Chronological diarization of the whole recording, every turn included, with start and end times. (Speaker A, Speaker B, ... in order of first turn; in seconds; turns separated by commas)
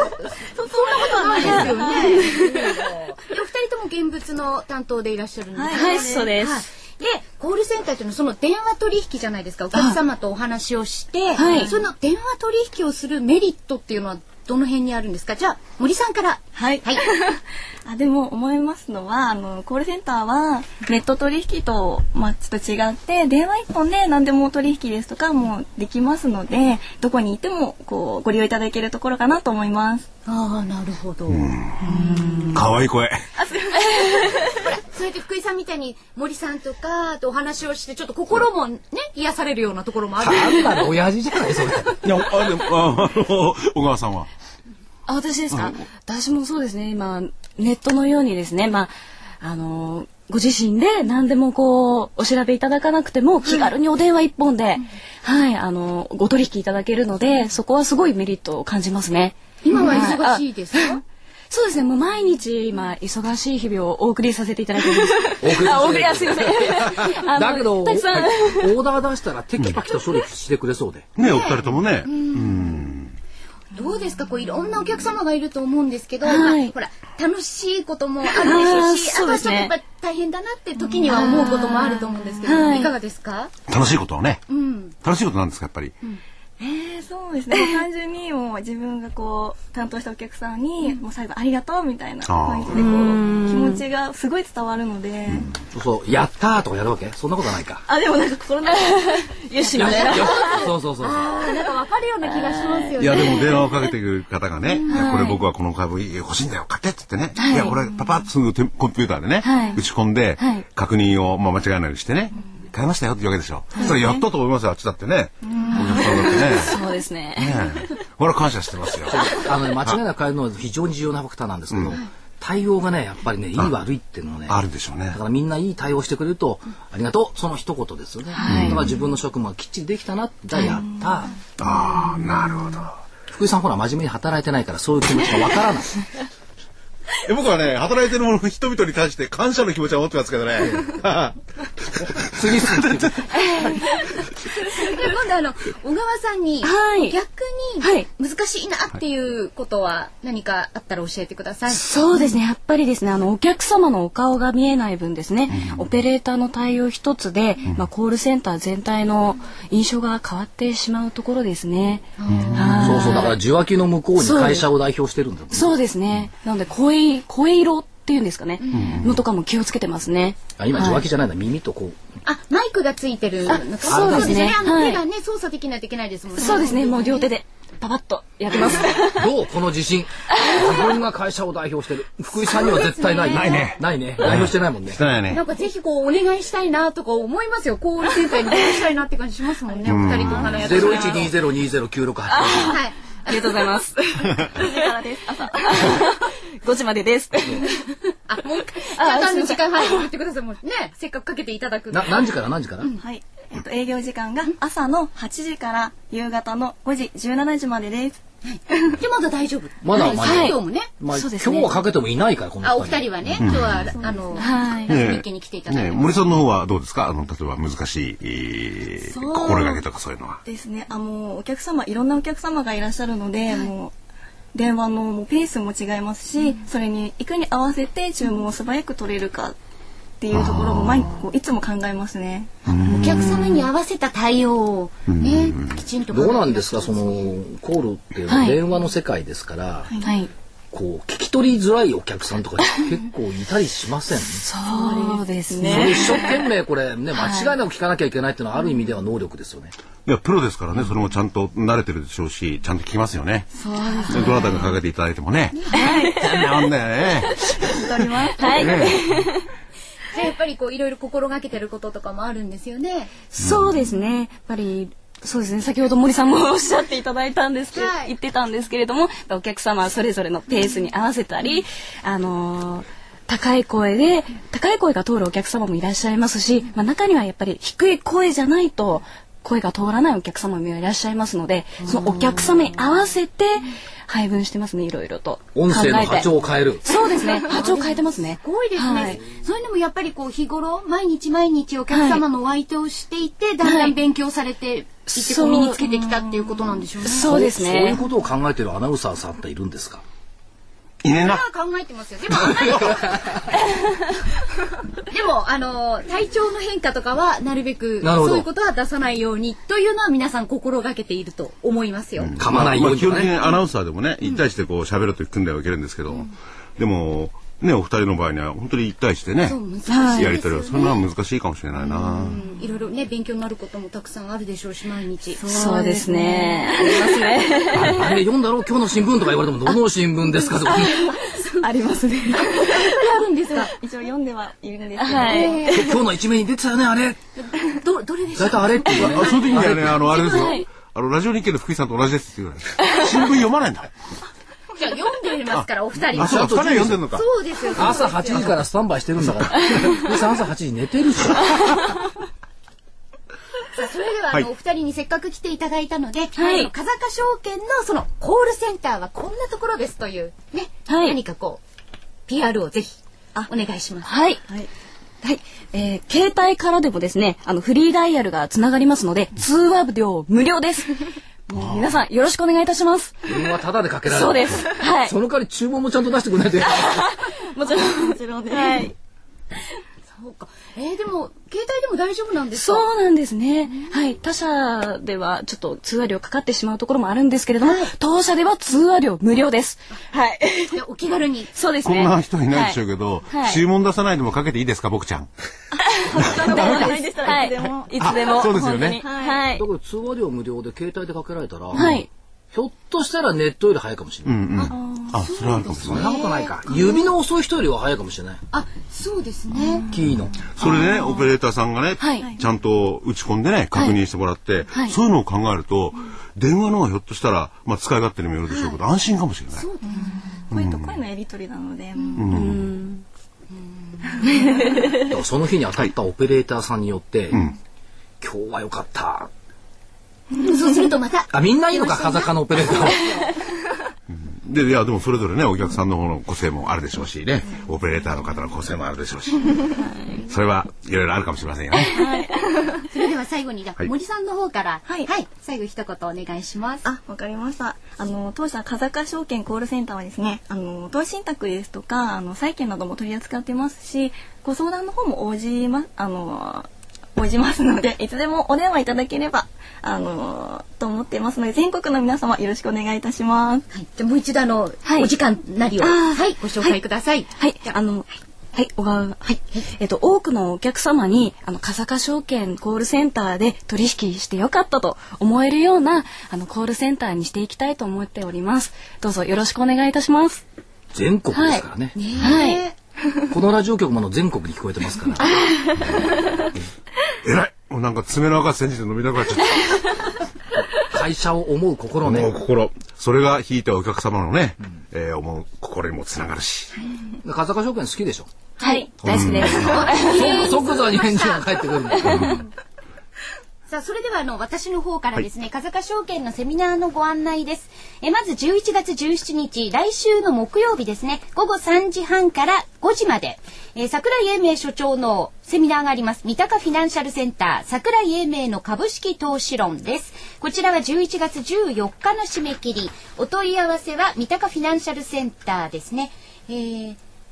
Speaker A: 0.6-17.0, Speaker B: 0.6-2.8, Speaker C: 0.7-2.3, Speaker C: 5.5-6.4, Speaker B: 5.7-6.7, Speaker B: 11.3-11.8, Speaker C: 11.4-11.8, Speaker C: 16.6-30.1, Speaker A: 30.3-32.6, Speaker D: 31.3-31.8, Speaker C: 31.8-32.6, Speaker D: 32.5-33.2, Speaker C: 33.4-34.5, Speaker A: 34.5-40.9, Speaker E: 40.2-42.0, Speaker D: 42.0-44.3, Speaker B: 45.1-68.8, Speaker D: 45.5-45.8, Speaker A: 59.6-61.0, Speaker E: 65.4-71.1, Speaker D: 71.2-73.2, Speaker A: 71.2-72.8, Speaker A: 73.7-83.5, Speaker B: 76.2-76.7, Speaker B: 78.4-79.7, Speaker B: 80.9-82.9, Speaker C: 81.1-81.7, Speaker D: 83.7-84.4, Speaker A: 84.5-85.0, Speaker D: 85.0-85.9, Speaker C: 86.6-95.5, Speaker B: 87.5-87.8, Speaker D: 92.3-92.8, Speaker B: 92.7-93.8, Speaker D: 95.3-95.5, Speaker E: 95.7-97.8, Speaker C: 97.9-100.5, Speaker B: 99.3-100.7, Speaker E: 99.8-101.3, Speaker A: 99.8-103.7, Speaker C: 102.4-103.5, Speaker D: 103.0-116.8, Speaker A: 104.7-105.2, Speaker C: 104.9-105.3, Speaker B: 104.9-105.3, Speaker B: 107.4-107.8, Speaker B: 109.4-109.8, Speaker B: 110.4-110.7, Speaker B: 113.8-114.2, Speaker A: 115.6-116.4, Speaker C: 115.7-116.0, Speaker B: 115.7-118.0, Speaker D: 117.4-120.0, Speaker E: 119.1-131.4, Speaker D: 124.5-125.2, Speaker B: 128.3-128.9, Speaker D: 128.4-128.9, Speaker D: 131.6-133.0, Speaker E: 133.3-136.0, Speaker D: 137.2-143.1, Speaker E: 142.3-143.3, Speaker B: 143.5-143.8, Speaker A: 143.6-151.8, Speaker B: 146.6-147.2, Speaker B: 147.8-148.1, Speaker B: 151.7-163.4, Speaker D: 155.5-155.8, Speaker A: 162.2-163.2, Speaker D: 162.3-163.0, Speaker E: 162.8-165.7, Speaker B: 164.2-164.7, Speaker B: 165.5-171.1, Speaker A: 168.6-169.0, Speaker D: 168.7-169.2, Speaker E: 170.6-172.0, Speaker A: 172.2-177.3, Speaker B: 173.5-175.0, Speaker E: 173.9-174.6, Speaker B: 176.3-179.3, Speaker E: 178.5-185.0, Speaker B: 180.3-181.0, Speaker A: 182.4-183.7, Speaker D: 183.2-185.4, Speaker A: 185.3-191.4, Speaker D: 189.9-190.7, Speaker B: 190.4-191.4, Speaker E: 190.6-192.8, Speaker B: 192.3-194.9, Speaker A: 192.6-193.5, Speaker C: 194.5-196.1, Speaker B: 195.5-197.9, Speaker A: 198.3-203.0, Speaker B: 199.0-200.1, Speaker E: 201.9-202.9, Speaker C: 202.9-208.2, Speaker A: 208.5-210.9, Speaker E: 209.8-213.1, Speaker B: 210.0-211.8, Speaker A: 212.6-216.4, Speaker D: 213.4-213.8, Speaker B: 214.4-214.9, Speaker C: 214.4-214.8, Speaker D: 214.9-220.4, Speaker A: 219.1-219.6, Speaker C: 219.2-219.7, Speaker C: 220.5-223.9, Speaker C: 224.5-229.6, Speaker C: 230.2-233.0, Speaker D: 230.3-231.1, Speaker D: 232.7-233.4, Speaker A: 232.7-237.3, Speaker D: 235.1-235.8, Speaker E: 236.1-239.9, Speaker B: 238.3-238.6, Speaker C: 239.9-240.3, Speaker B: 240.0-240.3, Speaker E: 240.7-244.4, Speaker B: 244.4-246.5, Speaker C: 244.7-246.4, Speaker A: 244.7-245.2, Speaker E: 245.7-249.7, Speaker B: 247.1-247.5, Speaker D: 250.1-253.5, Speaker A: 253.7-254.6, Speaker B: 253.7-254.7, Speaker D: 254.1-259.2, Speaker A: 255.5-255.8, Speaker B: 255.7-256.6, Speaker C: 255.8-256.1, Speaker C: 257.5-258.9, Speaker B: 258.4-259.4, Speaker A: 260.1-263.1, Speaker B: 263.3-289.2, Speaker A: 267.7-268.1, Speaker A: 281.8-282.5, Speaker E: 285.6-286.8, Speaker A: 286.9-297.4, Speaker B: 291.9-292.2, Speaker B: 293.6-293.9, Speaker B: 295.1-298.0, Speaker E: 297.2-300.0, Speaker D: 301.0-301.4, Speaker A: 301.1-303.7, Speaker D: 302.6-302.9, Speaker A: 305.1-312.3, Speaker E: 308.0-308.5, Speaker D: 312.2-319.6, Speaker E: 312.4-313.4, Speaker A: 319.4-321.0, Speaker B: 319.9-320.4, Speaker D: 320.1-322.4, Speaker B: 321.8-322.4, Speaker A: 322.2-327.9, Speaker B: 325.5-328.2, Speaker E: 327.8-331.0, Speaker B: 330.4-332.9, Speaker A: 330.9-331.6, Speaker A: 332.3-333.7, Speaker C: 333.6-335.8, Speaker B: 335.0-335.8, Speaker A: 335.2-335.8, Speaker E: 335.7-337.2, Speaker A: 337.8-340.6, Speaker E: 338.4-339.9, Speaker D: 338.9-343.9, Speaker B: 340.2-340.7, Speaker B: 342.8-343.1, Speaker A: 344.8-346.6, Speaker D: 345.5-347.2, Speaker E: 346.2-347.0, Speaker A: 347.1-348.5, Speaker E: 347.7-351.9, Speaker D: 349.2-349.6, Speaker A: 353.7-361.6, Speaker B: 356.4-356.7, Speaker B: 360.9-361.2, Speaker A: 362.3-364.1, Speaker B: 364.0-364.4, Speaker B: 365.2-375.2, Speaker E: 373.3-377.1, Speaker B: 376.7-378.9, Speaker C: 377.6-378.9, Speaker A: 380.1-382.9, Speaker B: 382.5-390.8, Speaker A: 387.6-387.9, Speaker A: 390.7-391.5, Speaker B: 391.5-393.6, Speaker D: 391.8-395.3, Speaker C: 395.8-399.5, Speaker B: 395.9-399.6, Speaker D: 396.2-396.9, Speaker D: 398.0-399.0, Speaker E: 399.5-404.6, Speaker B: 401.7-402.1, Speaker D: 404.2-406.1, Speaker A: 404.6-407.1, Speaker C: 404.7-405.3, Speaker E: 405.7-408.4, Speaker A: 408.5-409.9, Speaker E: 409.9-410.5, Speaker D: 410.5-419.7, Speaker B: 412.0-412.3, Speaker C: 412.2-412.5, Speaker A: 418.5-418.8, Speaker A: 419.5-420.4, Speaker C: 420.1-422.4, Speaker D: 420.5-421.0, Speaker D: 422.2-422.7, Speaker B: 422.2-423.0, Speaker A: 424.0-424.7, Speaker C: 424.2-424.8, Speaker E: 425.0-427.4, Speaker D: 427.3-427.6, Speaker E: 428.2-429.3, Speaker A: 430.3-433.4, Speaker E: 431.3-433.1, Speaker D: 434.1-439.7, Speaker C: 439.8-440.2, Speaker D: 440.3-442.0, Speaker C: 441.8-442.9, Speaker A: 442.9-446.9, Speaker C: 446.8-463.7, Speaker A: 463.7-467.3, Speaker B: 465.8-466.8, Speaker B: 467.4-480.4, Speaker E: 480.9-482.0, Speaker B: 481.3-481.7, Speaker A: 482.0-482.7, Speaker B: 482.2-482.6, Speaker E: 483.3-485.4, Speaker B: 485.2-486.1, Speaker D: 485.8-486.1, Speaker D: 487.2-489.9, Speaker E: 490.9-492.4, Speaker D: 492.0-496.7, Speaker E: 497.2-498.3, Speaker B: 498.6-500.9, Speaker A: 498.6-498.9, Speaker E: 499.0-502.4, Speaker D: 499.1-499.9, Speaker A: 499.6-501.5, Speaker D: 502.1-502.4, Speaker B: 502.1-502.4, Speaker A: 503.7-527.0